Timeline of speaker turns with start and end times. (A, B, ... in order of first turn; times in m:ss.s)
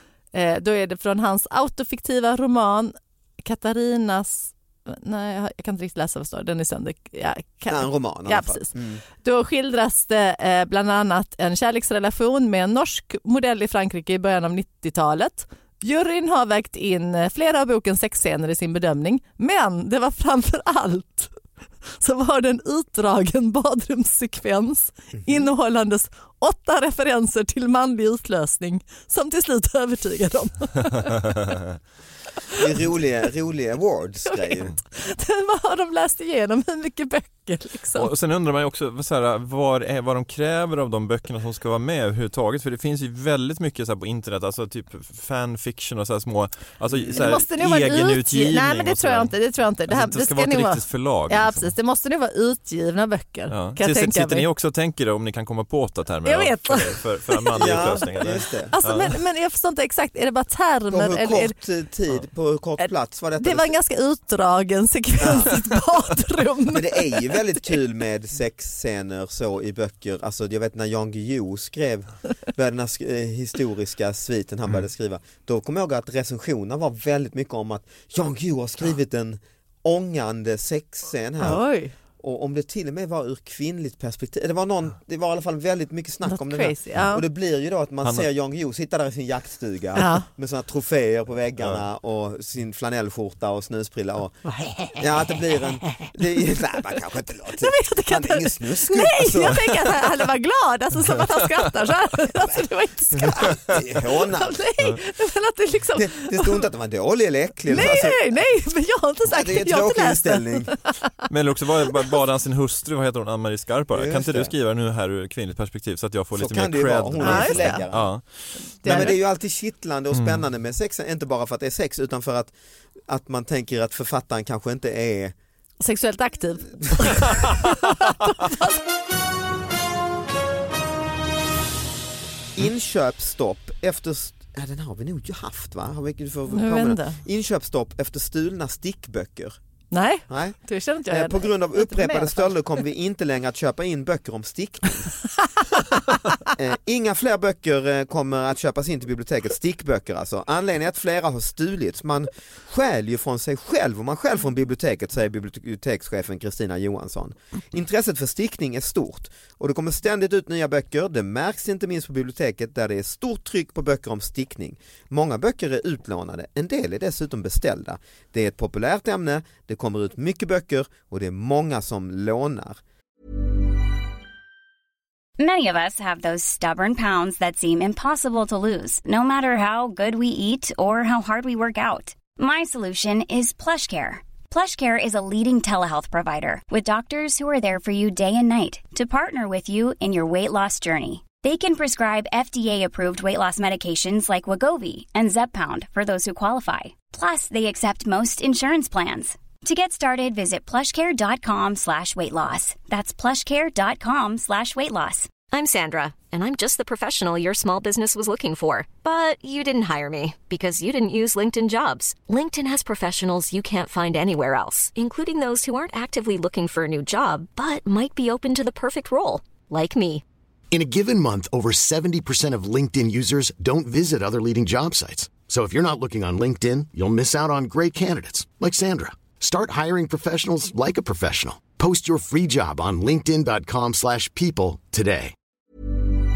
0:00.3-0:21.3 A
0:07.7-0:09.0 B
0:22.0-0:31.4 A
0:25.2-0:25.5 B
0:32.6-0:34.7 B
0:34.3-0:38.1 A
0:37.9-0:49.3 C
0:46.9-0:47.4 B
0:47.1-0:54.4 A
0:49.9-0:51.7 C
0:53.5-0:59.2 C
0:56.2-0:58.1 A
0:57.5-0:58.8 B
0:58.7-1:01.5 A
1:00.9-1:03.7 B
1:03.4-1:07.3 A
1:05.2-1:05.5 B
1:06.7-1:21.6 B
1:21.4-1:21.9 A
1:22.2-1:34.4 B
1:26.2-1:27.2 A
1:30.0-1:30.2 A
1:35.0-1:40.0 B
1:37.6-1:46.6 A
1:43.3-1:44.6 B
1:46.0-1:48.2 B
1:47.7-1:50.8 A
1:49.3-1:50.7 B
1:51.3-1:59.1 C
1:53.9-1:54.5 B
1:56.3-1:58.1 B
1:57.2-1:57.8 A
1:58.8-1:59.2 A
1:58.8-2:02.5 B
2:00.1-2:00.4 C
2:03.1-2:05.3 B
2:05.8-2:08.8 A
2:12.6-2:19.6 B
2:16.5-2:17.2 A
2:19.9-2:22.5 A
2:20.3-2:25.1 B
2:26.5-2:52.8 B
2:55.4-3:25.3 D
3:25.5-3:40.2 E
3:40.7-3:55.3 F